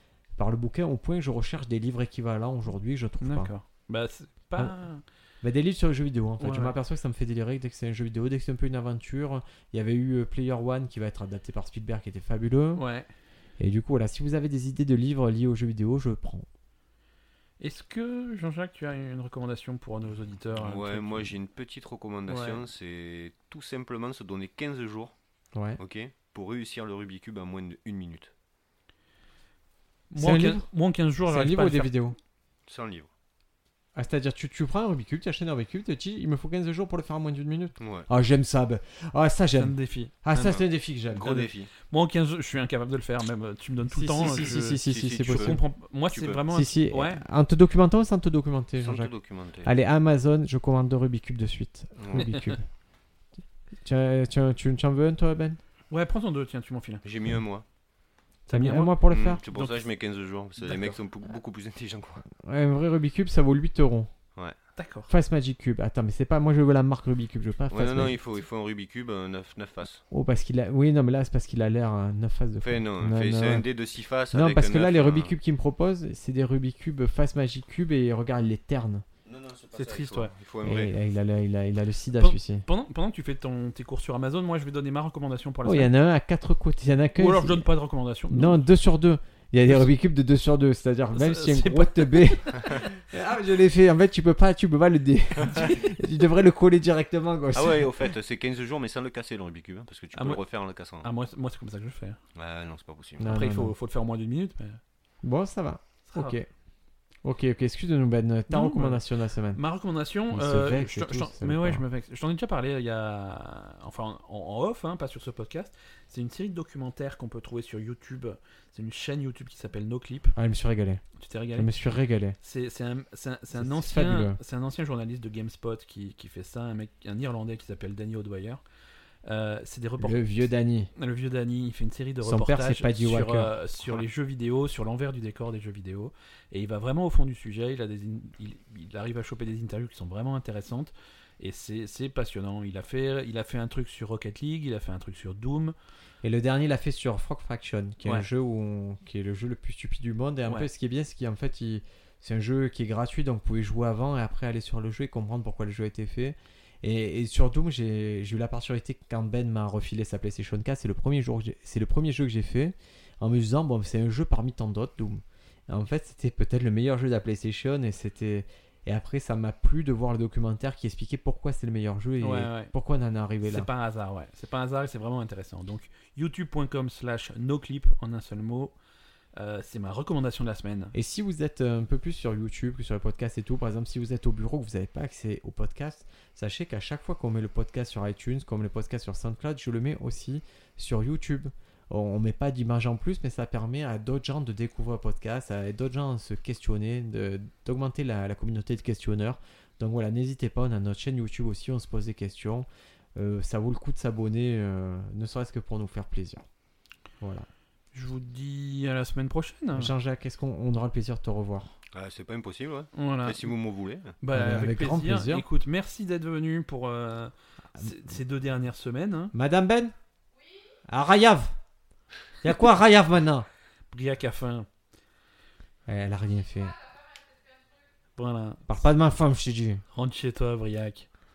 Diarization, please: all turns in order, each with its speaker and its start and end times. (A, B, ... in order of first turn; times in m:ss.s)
0:00.4-0:03.5 A
0:03.2-0:05.0 B
0:05.4-0:12.8 A
0:06.4-0:06.8 B
0:12.8-0:13.1 B
0:13.6-0:16.5 A
0:17.6-0:21.3 B
0:20.6-0:25.1 C
0:22.3-0:22.6 B
0:25.8-0:28.3 C
0:30.1-0:31.9 B
0:30.2-0:30.7 A
0:31.3-0:32.2 A
0:32.7-0:33.1 C
0:34.0-0:41.5 A
0:37.8-0:38.1 C
0:39.6-0:40.2 B
0:40.3-0:41.7 C
0:41.9-0:47.2 B
0:43.9-0:45.6 A
0:44.2-0:46.4 C
0:46.5-0:49.1 A
0:48.8-0:49.7 C
0:49.6-0:52.6 A
0:52.0-0:52.3 C
0:53.8-0:55.6 A
0:55.9-0:57.0 B
0:57.0-0:57.6 C
0:58.5-0:59.8 B
0:58.5-0:59.4 A
0:59.1-1:02.3 C
1:00.7-1:01.0 A
1:02.4-1:04.1 A
1:04.8-1:05.1 B
1:05.1-1:08.2 A
1:07.7-1:10.0 C
1:10.1-1:13.7 A
1:12.6-1:15.3 C
1:14.3-1:19.0 A
1:19.3-1:20.9 C
1:19.8-1:20.3 B
1:20.6-1:22.6 A
1:22.2-1:25.9 B
1:25.6-1:27.7 A
1:27.2-1:28.6 B
1:28.3-1:38.1 A
1:31.1-1:33.0 B
1:37.5-1:41.1 C
1:40.1-1:40.4 B
1:41.0-1:42.2 B
1:42.4-1:43.3 C
1:43.2-1:43.7 A
1:43.2-1:44.8 B
1:45.2-1:46.5 A
1:46.1-1:46.4 B
1:47.2-1:49.6 A
1:48.5-1:49.0 B
1:49.6-2:00.4 B
1:50.3-1:51.8 A
2:00.4-2:01.0 A
2:01.2-2:01.7 B
2:01.6-2:02.4 A
2:02.4-2:08.6 B
2:03.6-2:04.4 A
2:09.2-2:10.2 B
2:10.0-2:10.9 A
2:11.0-2:25.8 B
2:12.2-2:14.0 A
2:26.2-2:53.7 A
2:52.2-2:52.7 B
2:53.4-2:58.7 B
2:59.4-3:00.9 B
3:00.9-3:26.4 A
3:27.2-3:27.5 A
3:27.9-3:29.9 B
3:29.8-3:31.8 A
3:31.9-3:34.2 C
3:32.9-3:33.5 B
3:34.2-3:39.3 B
3:34.3-3:35.5 A
3:39.3-3:39.9 A
3:40.8-3:41.5 A
3:42.4-3:43.5 A
3:43.9-3:44.7 B
3:45.9-3:46.8 A
3:48.2-3:48.7 B
3:48.7-3:49.8 A
3:49.9-3:51.1 B